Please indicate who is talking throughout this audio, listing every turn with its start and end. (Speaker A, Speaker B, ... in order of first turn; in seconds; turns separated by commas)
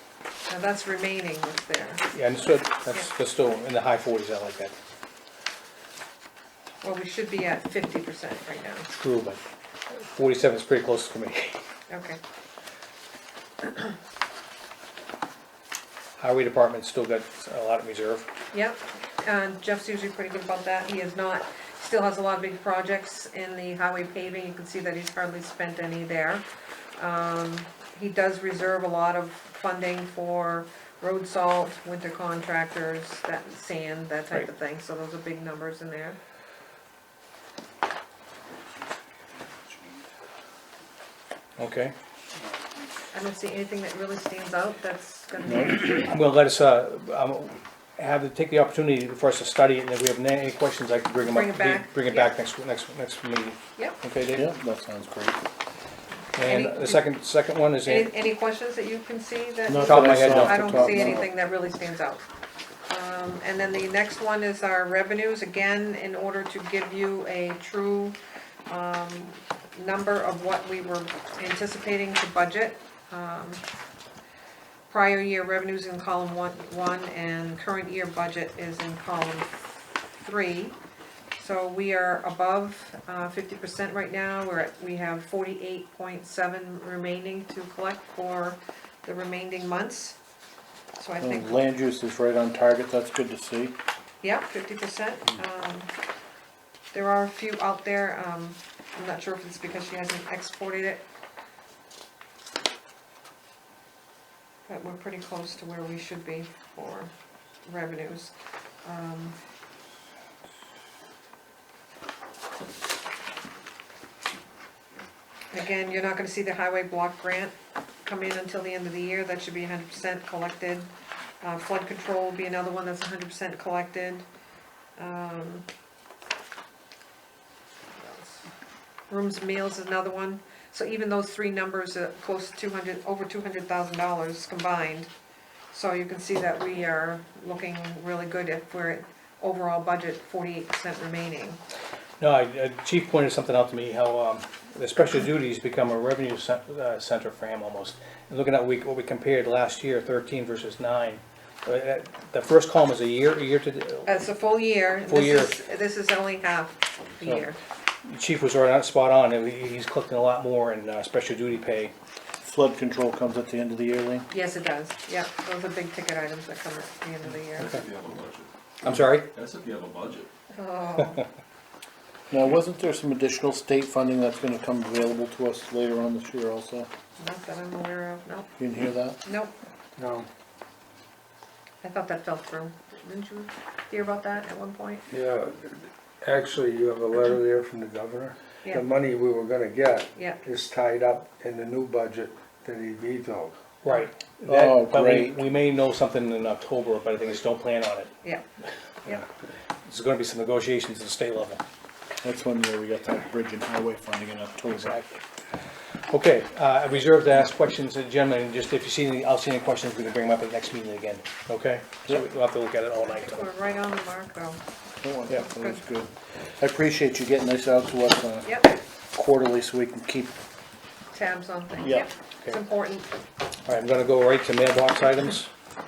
Speaker A: 0.5-2.1, Speaker B: 2.1-4.7, Speaker A: 6.8-8.9, Speaker B: 9.0-9.4, Speaker B: 9.9-11.6, Speaker A: 11.9-12.2, Speaker B: 16.2-18.3, Speaker A: 18.5-26.4, Speaker A: 27.0-36.2, Speaker B: 41.6-41.9, Speaker A: 43.1-46.1, Speaker B: 46.0-54.5, Speaker A: 51.2-52.3, Speaker C: 54.3-55.4, Speaker B: 56.3-58.1, Speaker A: 56.4-57.0, Speaker A: 57.8-62.2, Speaker C: 59.6-61.3, Speaker B: 59.8-61.2, Speaker A: 62.9-68.2, Speaker A: 68.7-73.6, Speaker A: 74.9-79.7, Speaker A: 80.2-80.8, Speaker A: 81.3-90.1, Speaker A: 91.0-91.6, Speaker C: 91.2-93.8, Speaker A: 94.2-95.9, Speaker A: 96.9-101.0, Speaker A: 104.7-107.1, Speaker A: 107.6-108.3, Speaker A: 108.8-109.3, Speaker A: 115.5-120.9, Speaker A: 121.4-124.2, Speaker A: 125.0-125.6, Speaker A: 127.9-128.5, Speaker A: 129.1-135.1, Speaker A: 135.7-141.6, Speaker B: 142.2-154.2, Speaker A: 154.1-157.6, Speaker B: 155.1-155.5, Speaker B: 158.0-161.9, Speaker C: 162.4-164.3, Speaker A: 164.3-167.8, Speaker D: 167.6-170.3, Speaker B: 168.8-169.3, Speaker A: 170.5-171.2, Speaker C: 172.3-176.9, Speaker A: 177.2-178.5, Speaker C: 178.6-179.2, Speaker A: 179.2-179.5, Speaker E: 180.0-180.3, Speaker A: 181.8-185.0, Speaker E: 185.1-193.5, Speaker A: 190.1-190.4, Speaker B: 193.8-198.1, Speaker C: 194.5-195.4, Speaker B: 199.8-201.6, Speaker C: 202.2-204.9, Speaker B: 204.7-205.2, Speaker B: 206.1-213.5, Speaker A: 213.0-214.6, Speaker C: 215.0-218.6, Speaker A: 215.5-215.8, Speaker A: 218.4-218.8, Speaker C: 219.1-220.3, Speaker A: 221.1-223.1, Speaker C: 221.8-222.1, Speaker B: 223.7-225.5